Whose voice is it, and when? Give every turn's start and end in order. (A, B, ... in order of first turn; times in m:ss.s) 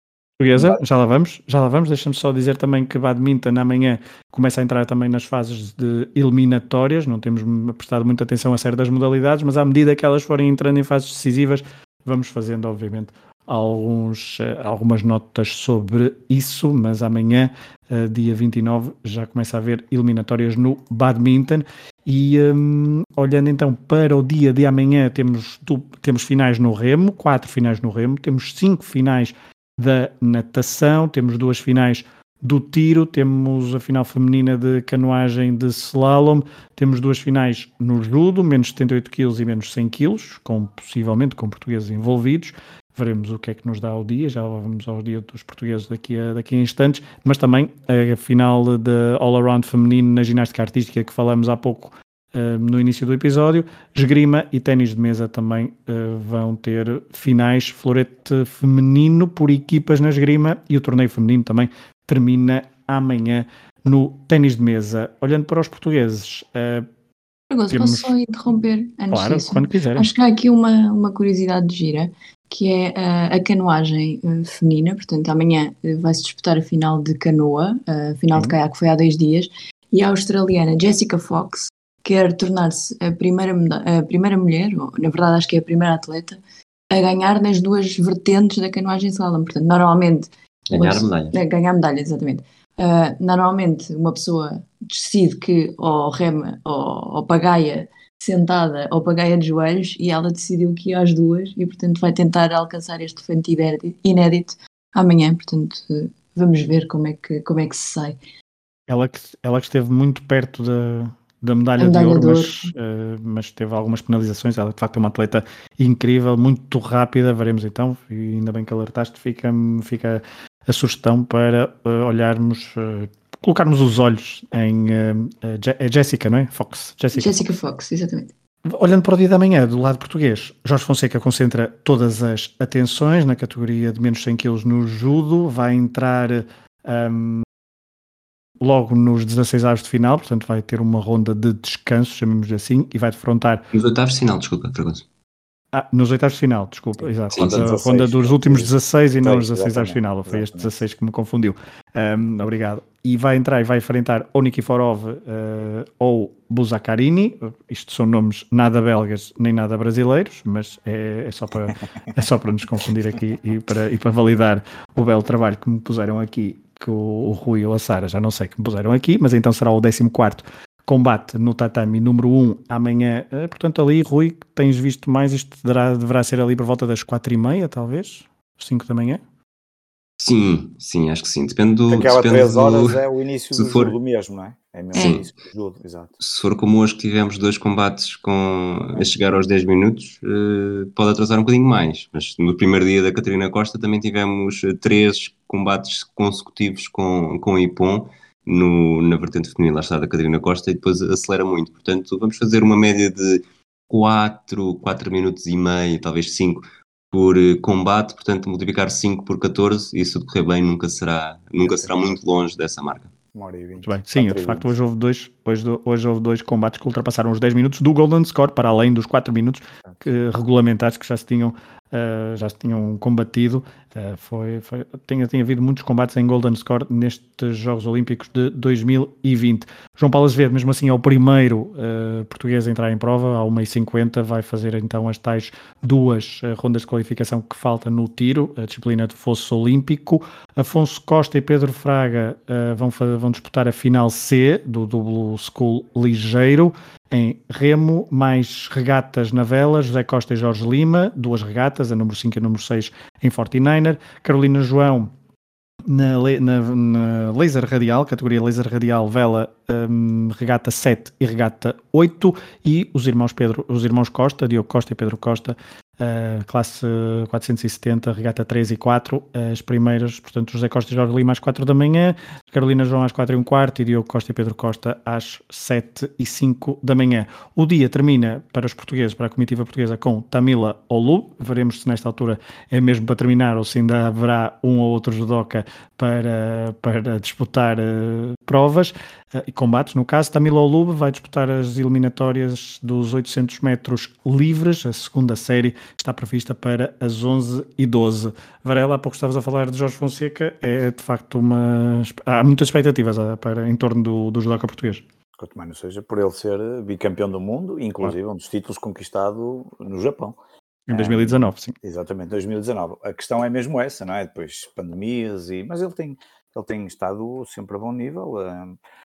0:00.4-1:06.9 A
0:00.5-0:00.8 B
1:07.5-1:26.4 C
1:07.7-1:08.1 A
1:09.1-1:10.1 A
1:26.9-1:48.2 C
1:30.7-1:31.4 D
1:48.9-2:07.4 A
1:51.8-1:52.7 C
2:07.1-2:08.3 C
2:08.7-2:17.4 A
2:18.6-2:23.6 A
2:23.7-2:25.0 D
2:25.7-2:59.2 A
2:27.0-2:30.7 B
2:27.3-2:27.7 D
3:00.2-3:03.0 D
3:01.9-3:06.1 B
3:03.5-3:03.9 D
3:04.9-3:05.3 D
3:06.2-3:33.1 D
3:31.6-3:32.2 B
3:33.3-3:34.7 B
3:33.8-4:15.1 A
4:15.9-5:05.0 A
5:05.4-5:10.4 B
5:10.9-5:11.7 A
5:10.9-5:18.8 B